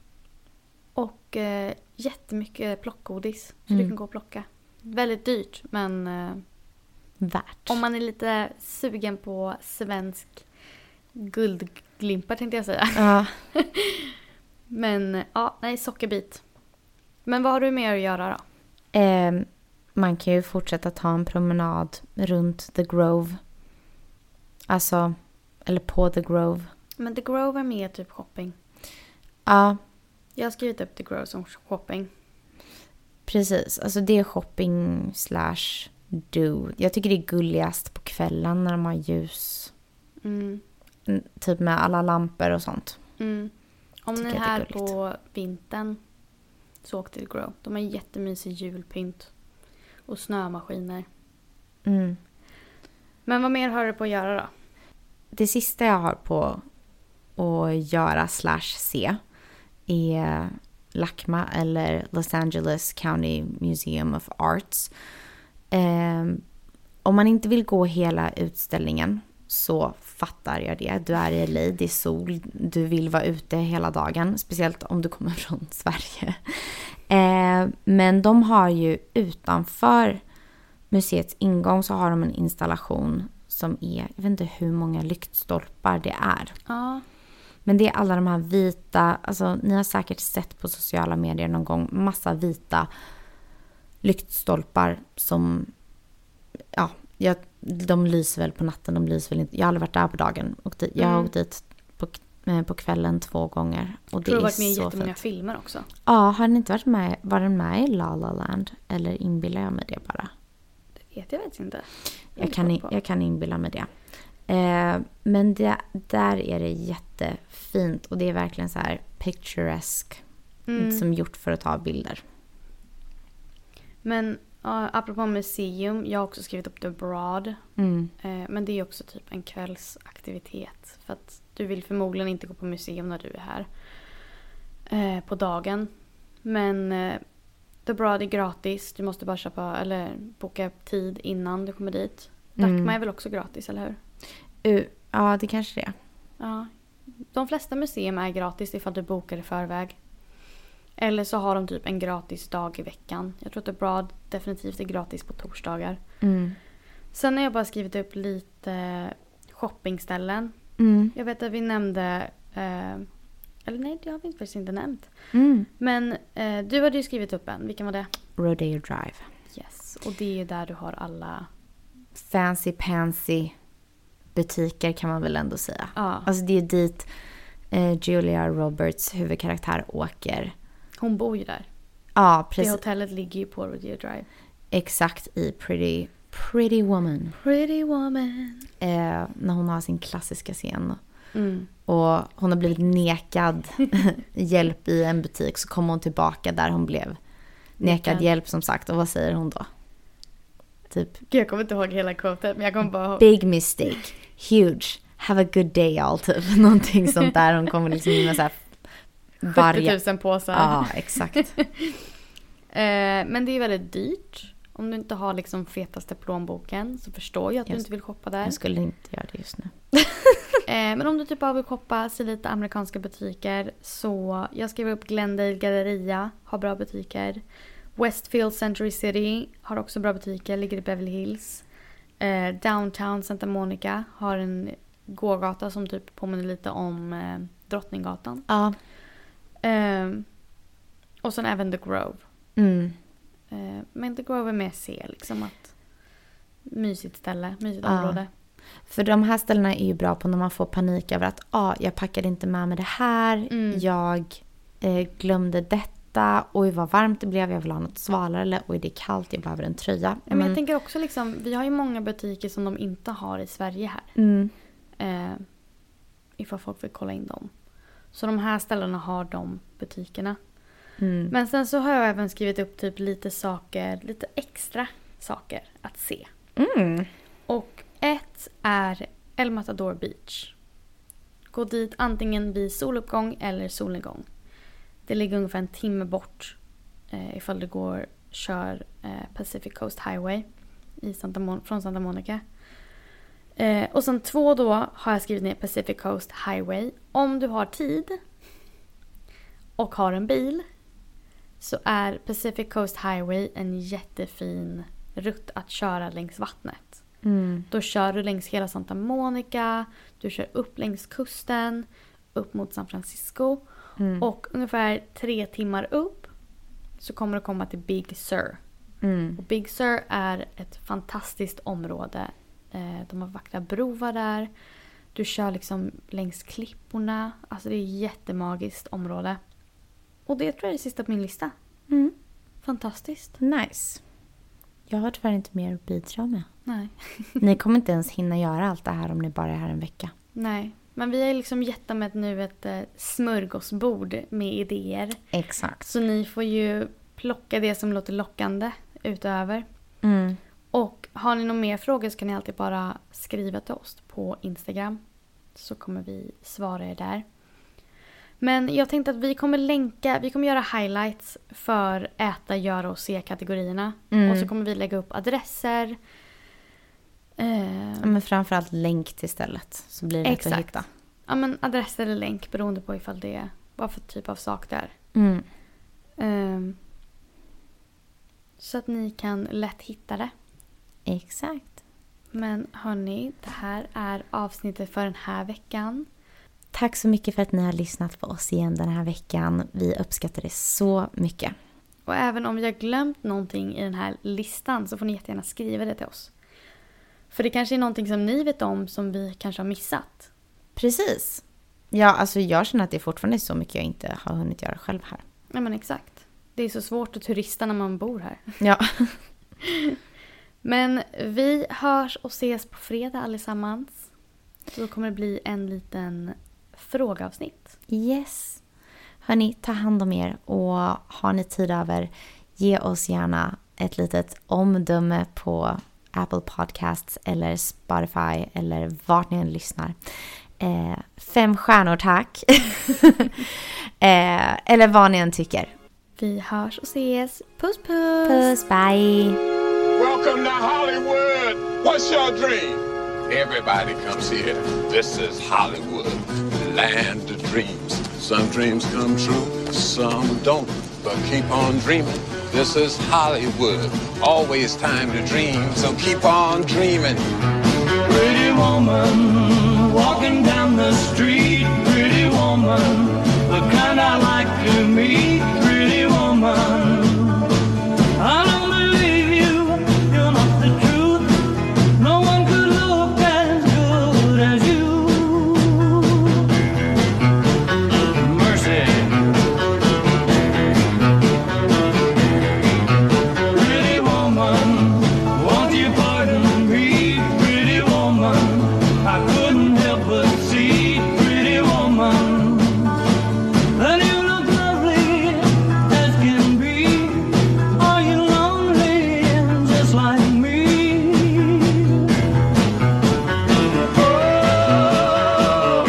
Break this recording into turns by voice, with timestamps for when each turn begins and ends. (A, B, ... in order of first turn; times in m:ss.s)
0:00.9-0:06.4 A
0:07.2-0:07.8 B
0:07.7-0:10.4 A
0:11.1-0:14.1 A
0:13.0-0:13.3 B
0:14.7-0:16.4 A
0:17.2-0:18.4 A
0:18.9-0:23.4 B
0:24.7-0:26.7 B
0:27.0-0:28.5 A
0:29.4-0:29.8 B
0:30.4-0:32.1 A
0:33.2-0:39.7 B
0:40.2-0:40.6 A
0:41.0-0:43.0 B
0:43.2-0:43.5 A
0:44.0-0:46.0 A
0:44.2-0:44.9 B
0:46.8-0:49.3 A
0:50.1-0:51.0 A
0:51.8-0:52.2 B
0:53.2-0:54.5 A
0:55.3-0:56.6 B
0:57.4-0:59.2 B
0:59.9-1:04.9 B
1:05.7-1:06.4 B
1:07.0-1:20.2 B
1:20.9-1:26.6 B
1:26.7-1:27.0 A
1:27.6-1:32.9 B
1:34.0-1:35.7 B
1:36.7-1:45.1 B
1:41.0-1:41.3 A
1:44.2-1:45.9 A
1:46.0-1:50.3 B
1:51.1-1:52.9 A
1:52.4-1:53.9 B
1:54.5-2:00.2 B
2:00.7-2:01.0 A
2:00.8-2:02.2 B
2:04.0-2:07.6 A
2:07.8-2:08.1 B
2:08.2-2:13.7 A
2:14.9-2:15.9 A
2:16.4-2:17.2 A
2:17.8-2:24.0 A
2:22.6-2:22.9 B
2:24.6-2:25.9 B
2:26.4-2:26.7 A
2:27.3-2:30.0 A
2:31.0-2:36.0 A
2:36.2-2:36.6 B
2:37.1-2:40.5 A
2:40.8-2:41.1 B
2:41.1-2:43.1 A
2:43.6-2:45.1 A
2:45.3-2:45.7 B
2:45.8-2:48.1 A
2:48.4-2:49.2 B
2:49.5-2:51.5 A
2:52.1-2:53.5 B
2:54.3-2:57.1 B
2:55.9-2:56.3 A
2:57.7-3:00.5 B
3:01.0-3:01.6 A
3:02.1-3:02.8 B
3:02.6-3:04.2 A
3:04.7-3:07.3 B
3:07.4-3:08.7 A
3:08.8-3:11.0 B
3:11.3-3:11.7 A
3:11.9-3:17.2 B
3:17.8-3:18.3 A
3:17.8-3:19.7 B
3:20.9-3:21.2 B
3:21.3-3:23.3 A
3:23.2-3:28.8 B
3:29.4-3:30.0 B
3:29.4-3:32.0 A
3:30.5-3:31.6 B
3:32.7-3:38.6 A
3:38.4-3:40.6 B
3:40.6-3:47.4 A
3:48.0-3:51.6 A
3:52.2-3:58.5 A
3:58.5-3:58.8 B
3:59.6-4:00.2 A
4:01.2-4:02.2 A
4:02.6-4:03.0 B
4:03.5-4:05.7 A
4:06.7-4:08.3 A
4:07.8-4:08.2 B
4:08.9-4:20.6 B
4:13.5-4:13.8 A
4:20.3-4:24.1 A
4:24.2-4:24.5 B
4:25.0-4:25.4 A
4:26.4-4:27.5 A
4:28.1-4:30.4 A
4:31.0-4:31.3 B
4:31.3-4:36.3 A
4:36.6-4:37.1 B
4:37.5-4:40.5 A
4:41.5-4:44.2 A
4:45.1-4:46.6 A
4:47.1-4:50.4 A
4:51.0-4:52.4 A
4:53.6-4:58.2 A
4:59.8-5:00.6 A
5:01.6-5:07.0 A
5:07.2-5:07.7 B
5:07.7-5:13.6 A
5:14.0-5:14.3 B
5:14.2-5:16.3 A
5:17.0-5:18.6 A
5:19.0-5:19.4 B
5:19.4-5:24.5 A
5:25.1-5:29.4 A
5:30.3-5:31.5 A
5:32.6-5:33.4 A
5:33.4-5:34.0 B
5:34.9-5:36.5 B
5:36.6-5:37.4 A
5:37.4-5:40.1 B
5:40.3-5:45.2 A
5:45.3-5:45.9 B
5:45.8-5:49.6 A
5:50.0-5:50.4 B
5:50.7-5:55.0 A
5:55.5-5:57.2 A
5:58.4-6:06.0 A
6:04.1-6:04.5 B
6:07.4-6:08.1 A
6:08.0-6:10.9 B
6:10.2-6:10.7 A
6:11.3-6:14.9 A
6:15.1-6:15.4 B
6:16.2-6:16.8 A
6:18.6-6:20.3 A
6:21.0-6:21.7 B
6:22.3-6:26.1 A
6:26.7-6:31.5 B
6:32.0-6:36.3 A
6:37.3-6:40.3 A
6:40.8-6:45.2 B
6:45.5-6:48.5 A
6:48.6-6:49.2 B
6:49.6-6:50.0 A
6:50.6-6:54.1 A
6:54.7-6:57.8 A
6:57.9-6:58.6 B
6:59.2-7:10.0 B
7:10.6-7:15.7 B
7:16.2-7:18.5 A
7:18.2-7:19.4 B
7:20.0-7:37.2 C
7:38.0-7:47.6 D
7:48.2-7:56.4 D
7:58.1-7:59.3 D
8:03.5-8:13.0 D
8:13.7-8:22.1 D
8:23.9-8:25.5 D